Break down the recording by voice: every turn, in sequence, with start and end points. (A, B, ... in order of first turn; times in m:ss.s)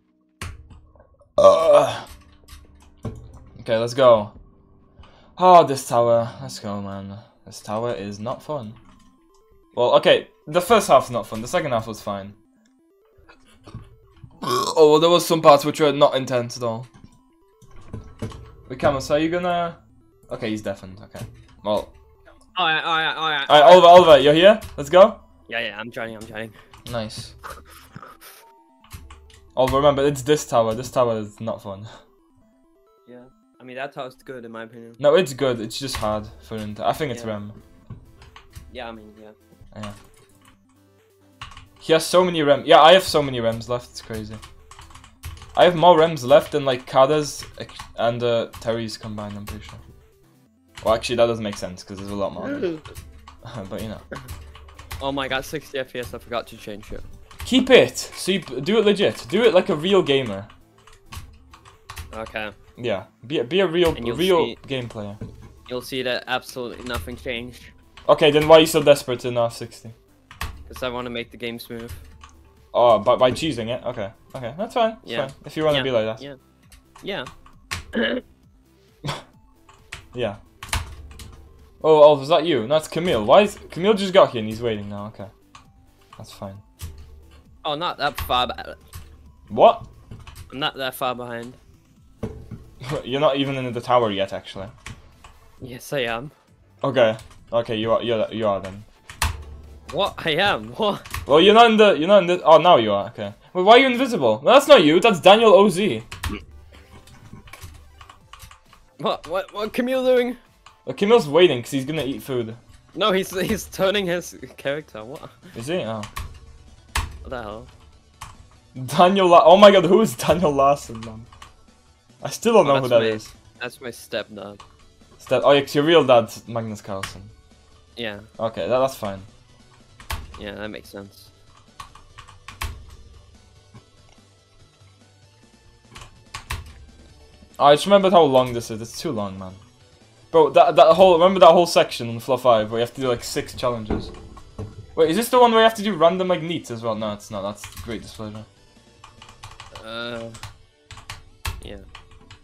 0:01.4-0:02.1 A
0:03.6-0:04.3 A
0:05.4-0:08.8 A
0:09.7-0:12.3 A
0:14.4-0:16.9 A
0:18.7-0:19.8 A
0:20.3-0:21.9 A
0:22.5-0:24.1 B
0:23.5-0:25.2 A
0:25.5-0:26.5 B
0:26.9-0:27.3 A
0:29.5-0:31.9 A
0:33.0-0:35.0 B
0:35.0-0:37.6 A
0:38.7-0:39.3 B
0:41.8-0:44.4 A
0:45.5-0:49.8 A
0:50.8-0:52.8 A
0:52.5-0:52.8 B
0:53.4-0:54.0 A
0:55.0-0:57.0 B
0:57.4-1:00.5 A
1:02.1-1:02.5 B
1:02.8-1:05.2 A
1:04.0-1:04.6 B
1:05.7-1:07.7 B
1:08.1-1:10.0 A
1:10.7-1:12.0 B
1:12.7-1:16.2 A
1:15.0-1:16.4 B
1:17.0-1:17.3 B
1:17.9-1:18.2 B
1:20.1-1:20.4 A
1:21.8-1:25.3 A
1:26.2-1:26.6 A
1:27.6-1:28.8 B
1:29.5-1:29.9 A
1:30.5-1:31.6 B
1:32.8-1:34.7 A
1:35.6-1:36.3 B
1:36.8-1:38.9 A
1:39.9-1:41.0 B
1:41.2-1:46.1 A
1:49.0-1:50.4 B
1:50.9-1:52.6 A
1:52.9-1:55.5 B
1:55.5-1:56.1 A
1:57.2-1:57.7 B
1:58.7-2:01.3 A
2:02.2-2:03.3 A
2:02.6-2:04.6 B
2:05.2-2:07.3 A
2:08.0-2:08.3 B
2:08.4-2:09.3 A
2:10.4-2:11.3 B
2:17.6-2:19.6 A
2:20.3-2:24.1 A
2:24.9-2:28.5 A
2:29.8-2:30.4 B
2:31.6-2:31.9 B